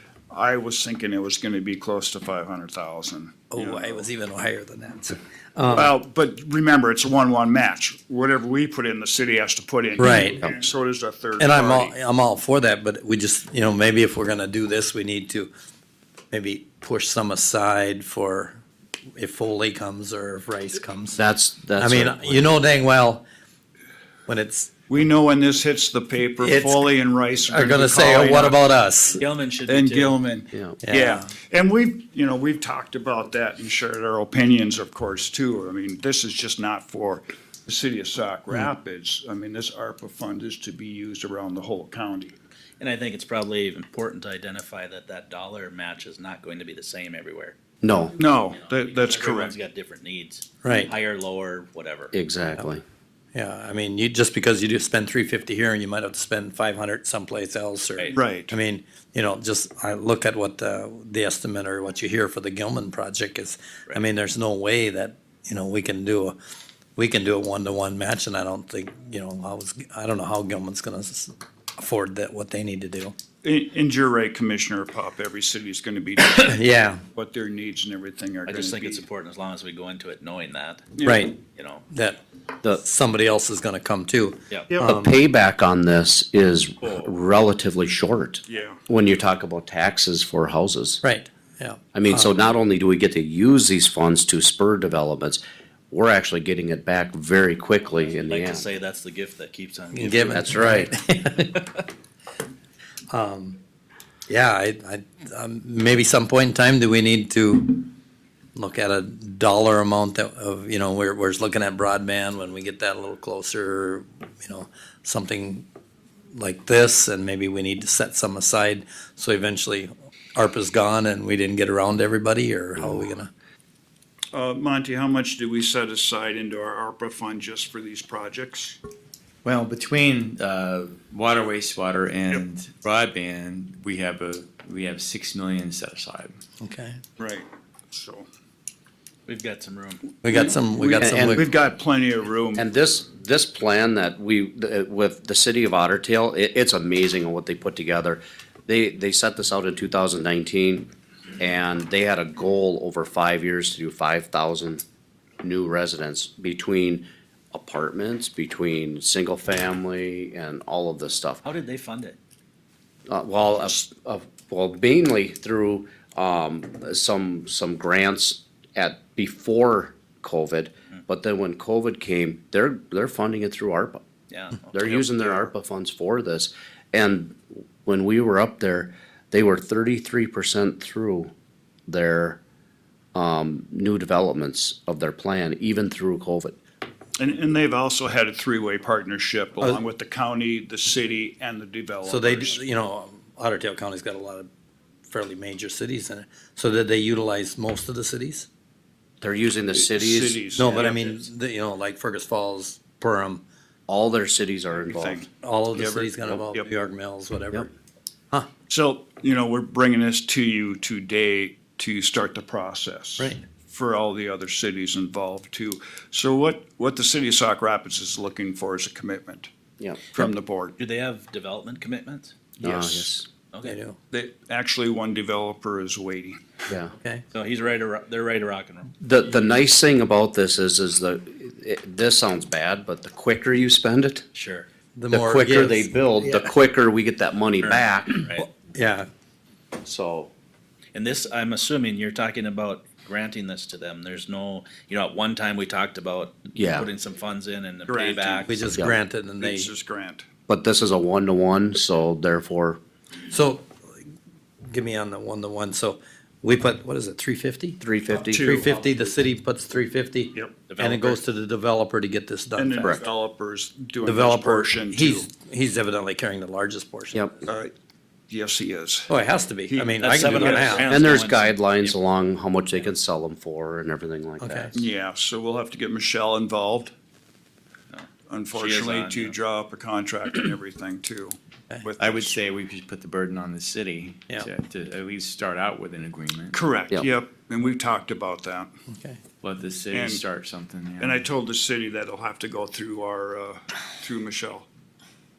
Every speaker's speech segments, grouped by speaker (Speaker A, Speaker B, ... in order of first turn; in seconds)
Speaker A: 0.3-4.0, 5.7-11.9, 24.9-28.6, 29.7-42.3, 48.2-49.6, 58.1-58.5, 73.4-76.6, 77.1-79.0, 81.0-81.3, 88.5-88.8, 124.3-128.8, 137.2-138.3, 140.3-142.6, 187.2-192.6, 199.7-201.3, 204.8-206.7, 208.7-219.5, 220.1-220.7, 222.6-223.2, 224.1-226.4, 247.9-248.5, 249.4-250.2, 258.1-258.9, 262.6-265.3, 267.4-267.7, 268.3-269.1, 269.7-270.9, 274.7-276.9, 278.3-282.4, 286.5-288.7, 289.9-290.2, 291.0-294.7
Speaker B: 3.5-5.9, 10.0-10.4, 11.4-15.5, 16.3-18.6, 19.1-21.2, 21.8-23.2, 24.3-24.9, 26.4-26.9, 27.5-29.2, 30.8-31.3, 50.6-50.9, 53.3-66.4, 67.0-73.2, 76.3-77.0, 81.0-81.4, 81.9-85.2, 91.0-92.4, 99.9-101.8, 103.1-103.6, 104.3-107.9, 108.5-115.7, 116.3-123.3, 136.6-137.0, 140.2-141.5, 192.0-194.5, 195.1-198.5, 200.5-203.4, 205.4-207.7, 223.6-224.0, 234.9-236.5, 238.3-239.1, 248.4-249.7, 253.3-253.7, 254.7-263.0, 264.0-267.3, 269.1-270.9, 274.4-274.8, 288.9-289.2
Speaker C: 21.1-22.5, 30.5-30.8, 47.8-48.1, 52.1-52.8, 84.7-91.0, 91.9-98.7, 100.3-100.9, 141.0-141.4, 142.5-150.9, 151.4-154.8, 155.4-161.4, 163.1-174.0, 174.7-181.3, 181.9-182.4, 183.1-186.6, 199.2-200.9, 203.9-205.3, 219.8-220.1, 222.6-223.3, 226.7-226.9, 229.0-234.2, 235.1-238.2, 239.8-240.3, 246.5-246.9, 250.5-252.8, 257.8-258.6, 270.9-274.8
Speaker D: 29.2-30.2, 42.8-47.5, 48.2-52.1, 78.5-80.9, 81.5-81.8, 86.8-87.1, 98.0-100.6, 139.2-140.1, 161.4-162.2, 174.3-175.5, 220.8-222.3, 227.3-228.9, 234.3-234.7, 237.6-238.4, 240.9-248.5, 260.7-261.2, 270.0-272.0, 277.9-279.3
Speaker E: 129.4-136.3, 282.0-286.6, 289.4-291.2